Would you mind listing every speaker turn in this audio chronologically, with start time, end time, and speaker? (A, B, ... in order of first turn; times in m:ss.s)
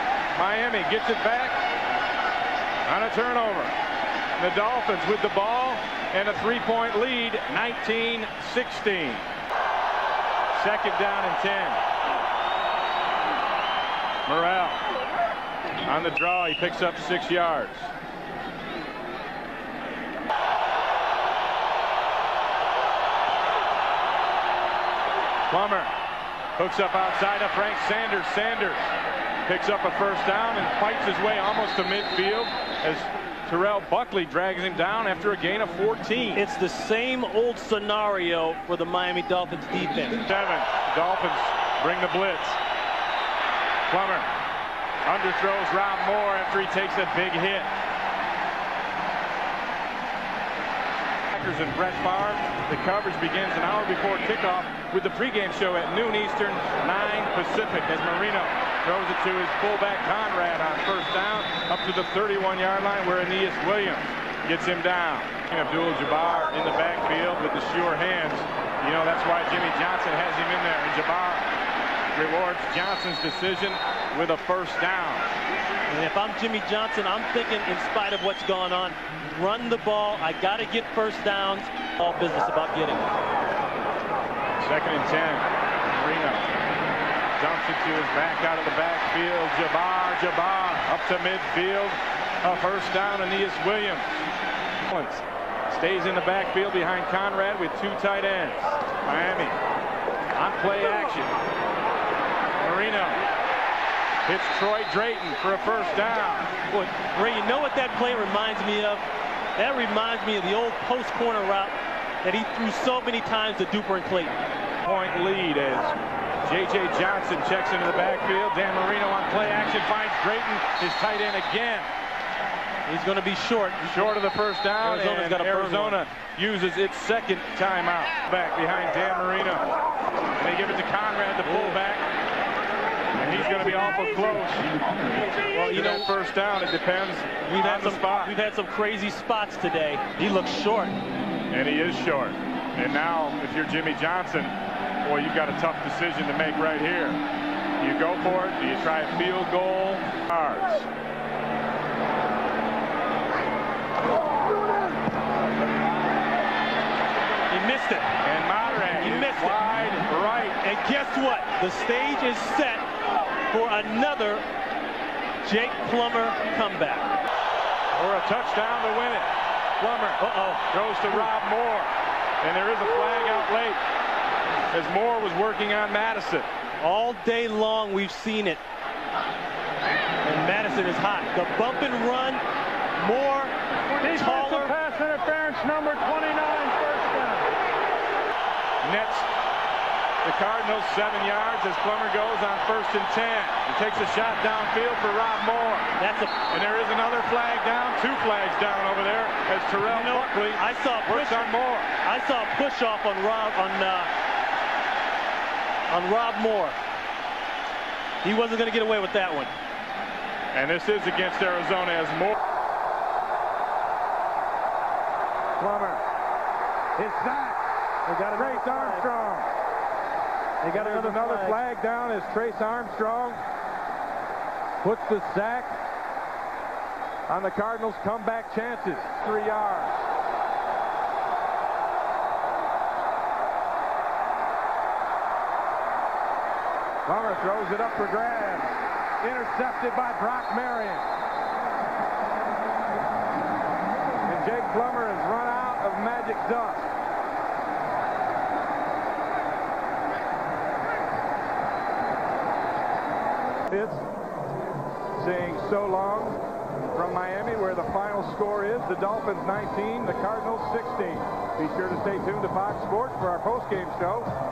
0:00.3-0:01.6 A
0:02.9-0:03.7 A
0:04.4-0:09.3 A
0:10.5-0:11.8 A
0:14.3-0:14.8 A
0:15.9-0:17.9 A
0:25.5-0:25.9 A
0:26.6-0:28.9 A
0:29.5-0:36.4 A
0:36.4-0:40.2 B
0:40.3-0:42.6 A
0:43.9-0:44.3 A
0:45.1-0:47.7 A
0:51.3-1:11.5 A
1:12.1-1:15.3 A
1:15.9-1:23.1 B
1:24.6-1:26.5 A
1:27.4-1:34.3 A
1:34.9-1:39.6 A
1:40.4-1:41.3 A
1:42.6-1:43.2 A
1:44.3-1:46.6 A
1:46.7-1:49.0 B
1:49.6-1:54.4 B
1:54.8-2:01.9 A
2:02.9-2:04.2 B
2:03.8-2:09.7 A
2:04.8-2:06.0 B
2:10.4-2:12.0 A
2:11.4-2:11.8 B
2:13.2-2:14.7 A
2:15.5-2:16.1 B
2:15.7-2:18.3 A
2:17.5-2:20.9 B
2:21.5-2:27.2 A
2:27.8-2:30.9 A
2:37.5-2:38.1 B
2:38.2-2:40.6 A
2:38.8-2:39.6 B
2:40.6-2:42.8 B
2:43.5-2:44.4 B
2:45.4-2:47.1 B
2:47.9-2:51.9 A
2:50.2-2:51.2 B
2:52.4-2:53.8 A
2:54.7-2:56.5 A
2:56.8-2:58.6 B
3:00.2-3:02.4 B
3:03.0-3:04.7 B
3:03.9-3:07.6 C
3:08.8-3:09.3 A
3:10.2-3:15.9 A
3:16.0-3:16.3 B
3:16.5-3:21.9 A
3:19.9-3:21.5 B
3:22.0-3:24.1 B
3:25.9-3:26.8 B
3:28.2-3:29.5 B
3:30.5-3:32.4 A
3:35.6-3:36.0 A
3:37.0-3:37.6 A
3:38.1-3:39.1 B
3:38.3-3:39.5 A
3:40.6-3:41.6 B
3:40.6-3:43.4 A
3:44.8-3:45.8 A
3:47.3-3:50.0 A
3:57.1-4:01.1 A
4:04.3-4:06.9 A
4:13.7-4:14.0 A
4:15.2-4:24.3 A